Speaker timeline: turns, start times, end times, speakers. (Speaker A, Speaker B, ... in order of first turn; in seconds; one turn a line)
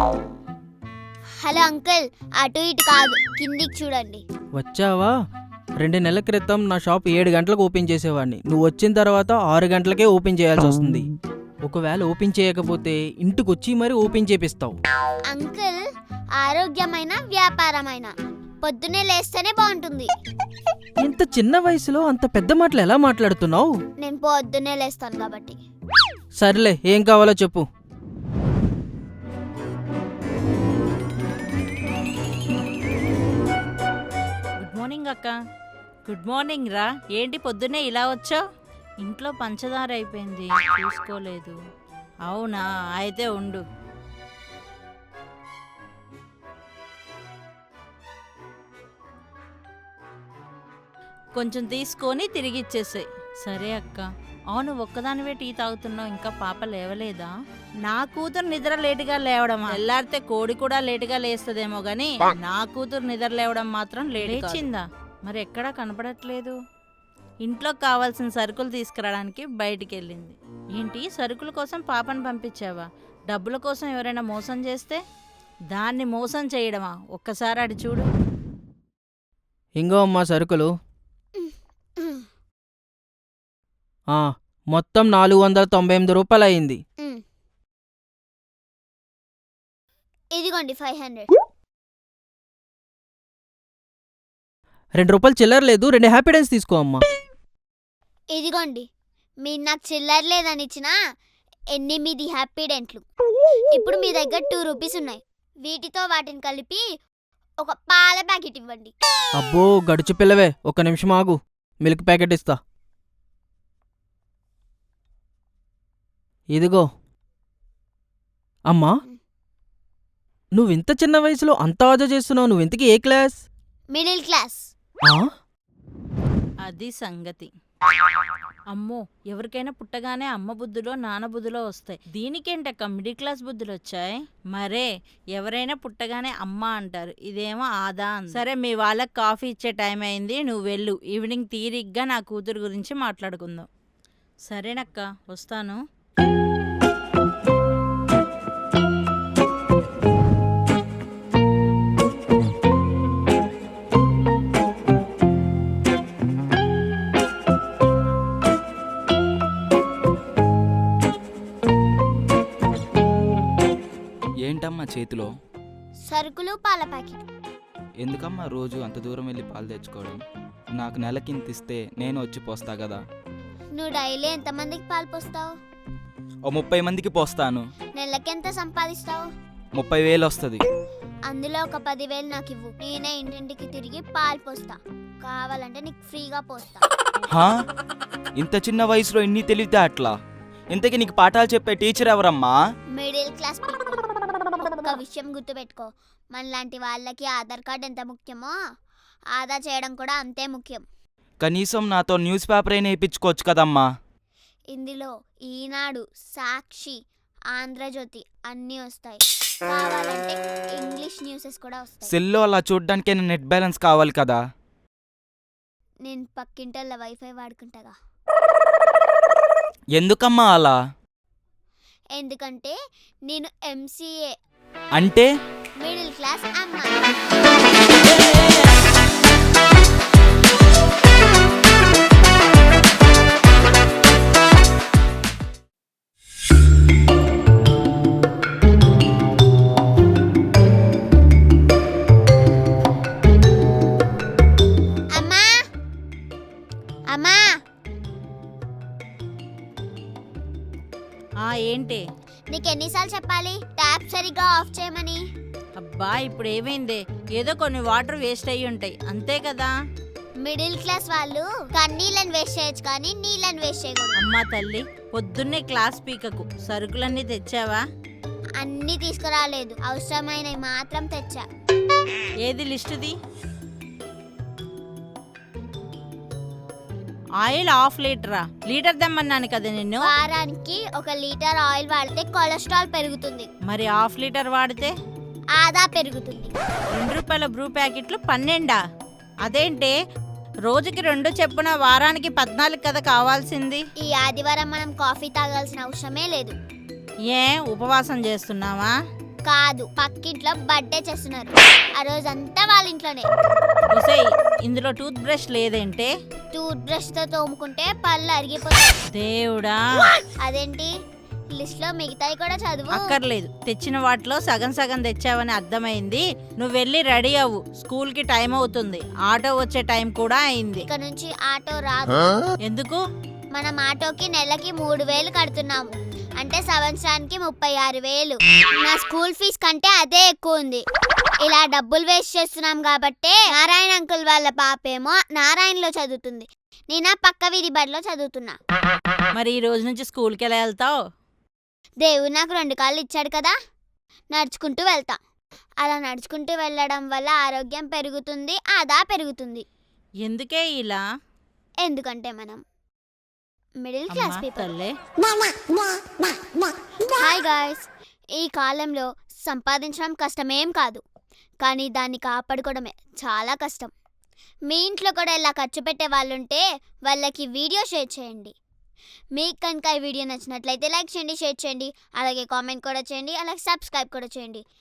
Speaker A: 1.4-4.2
Speaker B: 4.5-5.1
Speaker B: 5.8-11.1
Speaker B: 11.7-14.8
Speaker A: 15.3-15.8
Speaker A: 16.4-20.1
Speaker B: 21.0-23.8
Speaker A: 24.0-25.6
Speaker B: 26.4-27.7
Speaker C: 34.6-35.4
Speaker C: 36.1-38.4
Speaker C: 39.0-41.6
Speaker C: 42.3-43.6
Speaker C: 51.4-57.3
Speaker C: 57.9-66.5
Speaker C: 67.4-75.0
Speaker C: 75.7-78.1
Speaker B: 79.8-80.7
Speaker A: 81.4-82.3
Speaker B: 84.1-86.8
Speaker A: 90.3-91.3
Speaker B: 95.0-97.0
Speaker A: 98.3-98.9
Speaker A: 99.4-100.9
Speaker A: 101.8-103.0
Speaker A: 103.7-106.8
Speaker A: 107.6-108.9
Speaker B: 109.4-112.6
Speaker B: 116.5-116.9
Speaker B: 118.7-118.9
Speaker B: 120.6-123.4
Speaker A: 123.9-124.7
Speaker C: 126.7-127.5
Speaker C: 128.7-143.7
Speaker C: 144.5-145.8
Speaker D: 164.4-165.3
Speaker A: 166.1-167.2
Speaker D: 168.0-170.2
Speaker D: 170.8-173.0
Speaker A: 173.8-175.5
Speaker D: 176.5-177.7
Speaker A: 178.0-179.2
Speaker D: 179.8-180.7
Speaker A: 181.3-186.9
Speaker D: 188.4-190.2
Speaker D: 190.7-192.6
Speaker A: 192.9-194.0
Speaker A: 194.8-198.6
Speaker A: 199.4-200.8
Speaker D: 201.4-203.8
Speaker A: 204.7-207.0
Speaker A: 207.5-212.1
Speaker D: 212.1-214.4
Speaker A: 216.1-217.9
Speaker D: 219.9-220.8
Speaker A: 222.2-222.8
Speaker A: 223.3-224.3
Speaker D: 225.0-225.3
Speaker A: 225.8-227.2
Speaker A: 245.1-245.6
Speaker A: 247.1-247.6
Speaker C: 251.4-252.0
Speaker A: 252.5-255.2
Speaker C: 255.8-259.7
Speaker A: 260.4-264.2
Speaker C: 264.2-267.8
Speaker A: 268.6-271.4
Speaker C: 272.4-273.1
Speaker C: 277.4-280.0
Speaker A: 280.1-283.5
Speaker C: 283.7-284.9
Speaker A: 285.6-286.6
Speaker C: 286.9-288.8
Speaker C: 289.4-289.9
Speaker C: 290.6-293.8
Speaker A: 294.0-296.6
Speaker C: 297.3-298.9
Speaker A: 299.5-303.3
Speaker C: 303.9-306.1
Speaker A: 306.5-309.0
Speaker C: 309.1-309.8
Speaker A: 310.4-310.9
Speaker A: 311.6-313.2
Speaker C: 312.9-320.9
Speaker A: 320.8-322.2
Speaker C: 322.7-323.0
Speaker A: 323.6-330.9
Speaker A: 331.4-338.6
Speaker C: 339.4-341.0
Speaker A: 342.0-343.6
Speaker A: 344.3-345.2
Speaker A: 345.8-349.7
Speaker C: 350.2-351.0
Speaker A: 351.8-352.6
Speaker A: 353.8-354.7
Speaker C: 354.1-355.0
Speaker A: 357.1-357.9
Speaker A: 358.4-361.0
Speaker A: 361.6-363.9
Speaker A: 364.7-368.6
Speaker A: 369.4-374.6